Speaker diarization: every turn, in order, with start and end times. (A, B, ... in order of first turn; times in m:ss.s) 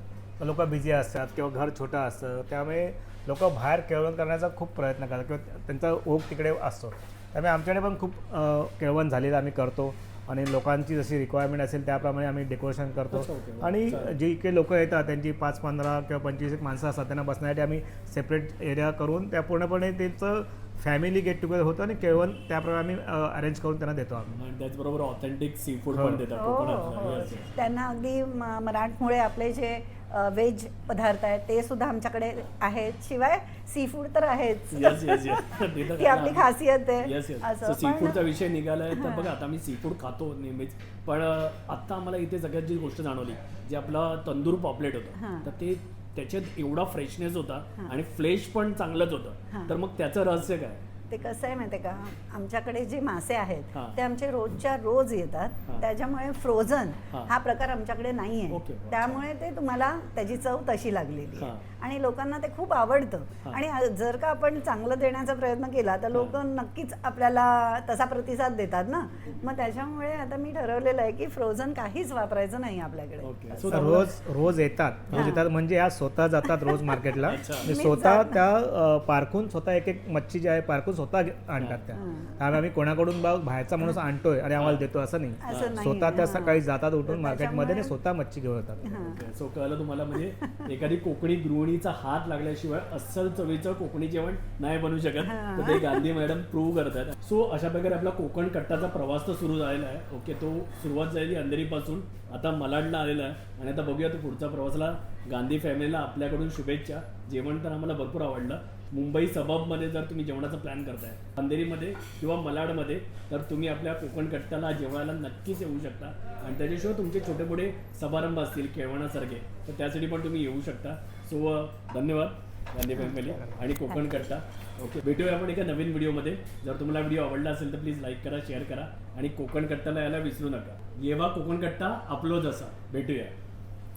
0:00.4-0:24.3 A
0:13.1-0:14.1 B
0:24.3-0:27.5 B
0:25.9-0:26.2 A
0:26.3-0:38.2 C
0:34.7-0:50.8 B
0:38.9-0:39.3 C
0:45.2-0:45.5 C
0:51.1-1:14.0 C
0:58.5-0:59.2 B
1:01.4-1:01.6 B
1:06.1-1:06.4 B
1:13.2-1:14.1 B
1:13.7-1:28.9 A
1:15.1-1:15.4 C
1:17.2-1:17.7 B
1:17.6-1:18.4 C
1:21.9-1:22.4 C
1:24.6-1:24.8 B
1:25.4-1:27.9 C
1:25.5-1:25.8 B
1:28.9-1:29.2 C
1:29.0-2:13.3 B
1:30.4-1:30.7 C
1:35.2-1:36.0 C